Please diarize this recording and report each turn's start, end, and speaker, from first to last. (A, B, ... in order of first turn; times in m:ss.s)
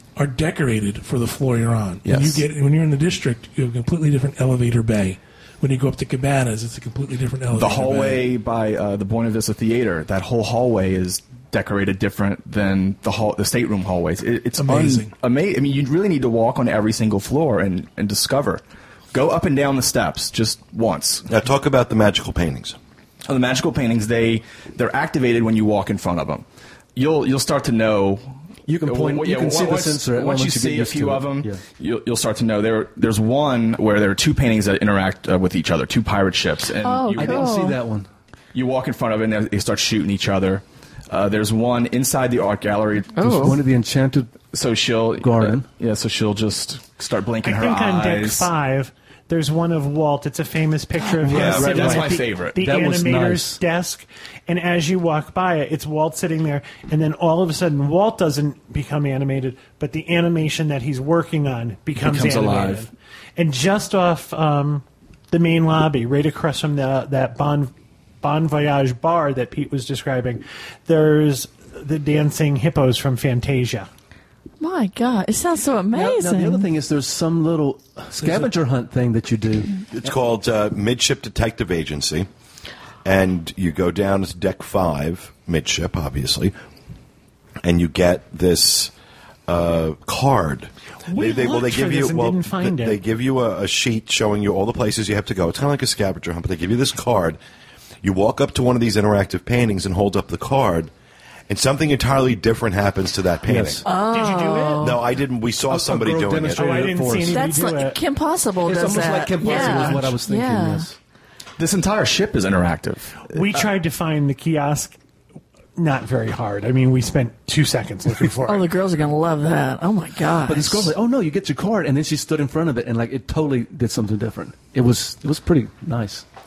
0:00.2-0:08.3 A
0:02.1-0:02.4 B
0:07.5-0:18.6 B
0:14.6-0:15.1 A
0:19.1-0:21.3 B
0:21.3-0:22.8 C
0:23.3-0:37.5 B
0:28.7-0:31.6 D
0:36.8-0:37.8 E
0:37.2-0:38.1 D
0:38.5-0:43.5 B
0:43.2-0:43.6 E
0:43.2-0:44.4 D
0:44.5-0:48.5 B
0:45.2-0:45.7 D
0:47.4-1:13.9 F
0:51.2-0:53.6 D
0:51.3-0:51.8 C
0:51.3-0:52.6 B
1:02.0-1:02.9 B
1:14.6-1:16.7 E
1:15.9-1:19.7 D
1:18.2-1:18.5 A
1:19.9-1:22.3 C
1:23.0-1:26.5 C
1:27.6-1:28.9 C
1:29.5-1:37.4 C
1:31.1-1:33.0 F
1:38.0-1:40.9 C
1:41.5-1:43.8 C
1:43.4-1:43.9 D
1:43.8-1:45.0 E
1:43.9-1:45.0 F
1:44.8-1:46.9 C
1:45.7-1:47.4 D
1:46.6-1:48.0 F
1:47.3-1:50.9 E
1:48.6-1:51.0 D
1:49.4-1:49.9 F
1:51.6-1:53.6 B
1:53.3-1:55.0 F
1:55.8-1:58.7 F
1:58.4-2:00.9 E
2:00.5-2:06.2 D